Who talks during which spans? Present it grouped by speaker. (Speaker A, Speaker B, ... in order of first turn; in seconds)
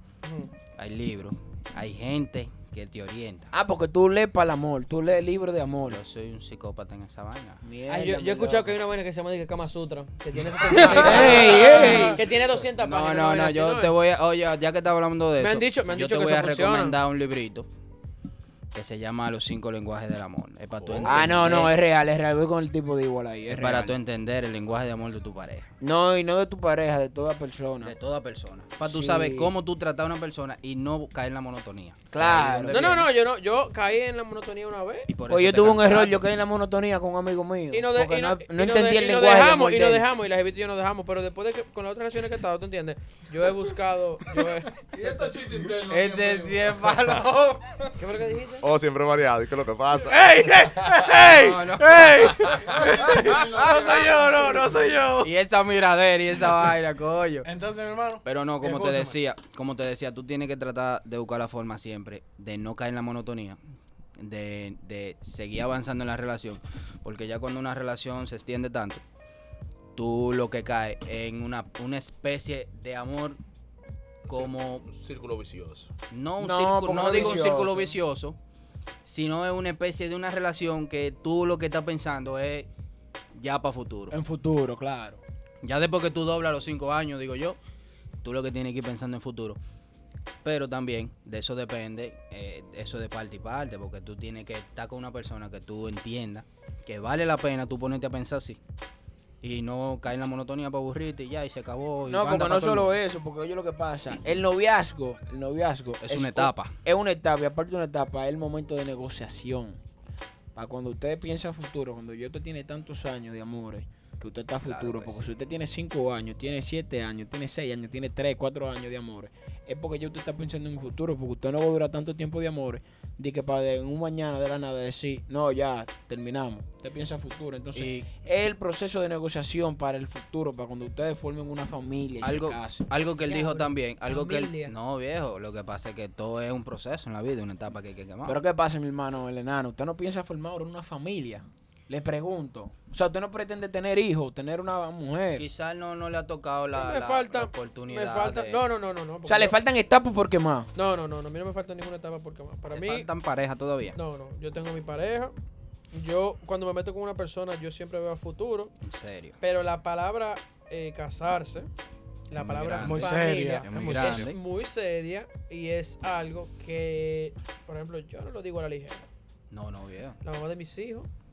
Speaker A: 0.2-0.5, 7.9-13.9, 15.4-17.0, 32.7-35.1, 37.7-44.7, 48.0-48.7, 133.2-134.7, 146.7-149.6, 150.8-153.1, 153.9-155.3, 155.9-158.7, 159.4-161.7, 162.3-169.1, 170.2-171.1
Speaker B: 0.8-3.5, 5.8-7.6, 10.7-12.0, 12.8-17.7, 18.7-21.8, 23.5-25.7, 27.8-33.0, 35.1-36.2, 45.9-47.6, 51.2-52.8, 55.2-57.5, 58.2-63.6, 64.2-69.0, 70.0-73.4, 74.3-74.9, 76.1-78.4, 79.0-82.7, 83.3-84.2, 85.6-87.6, 88.2-89.6, 90.4-98.6, 99.4-102.9, 106.0-106.8, 114.6-115.3, 127.7-128.1, 132.2-138.4, 145.3-148.6, 152.7-154.0, 158.8-159.4, 162.3-164.4, 169.5-170.2
Speaker C: 3.5-6.0, 7.6-8.7, 10.7-12.2, 21.1-23.9, 25.8-27.9, 28.9-29.5, 32.1-33.1, 35.3-40.0, 76.4-77.9, 84.1-85.2, 102.1-109.8, 110.5-132.8, 138.3-145.4, 149.3-150.7
Speaker D: 20.8-21.6, 48.6-50.6, 74.2-75.9
Speaker E: 44.9-47.2, 52.6-54.6
Speaker F: 50.1-55.3, 57.4-59.1, 162.8-164.3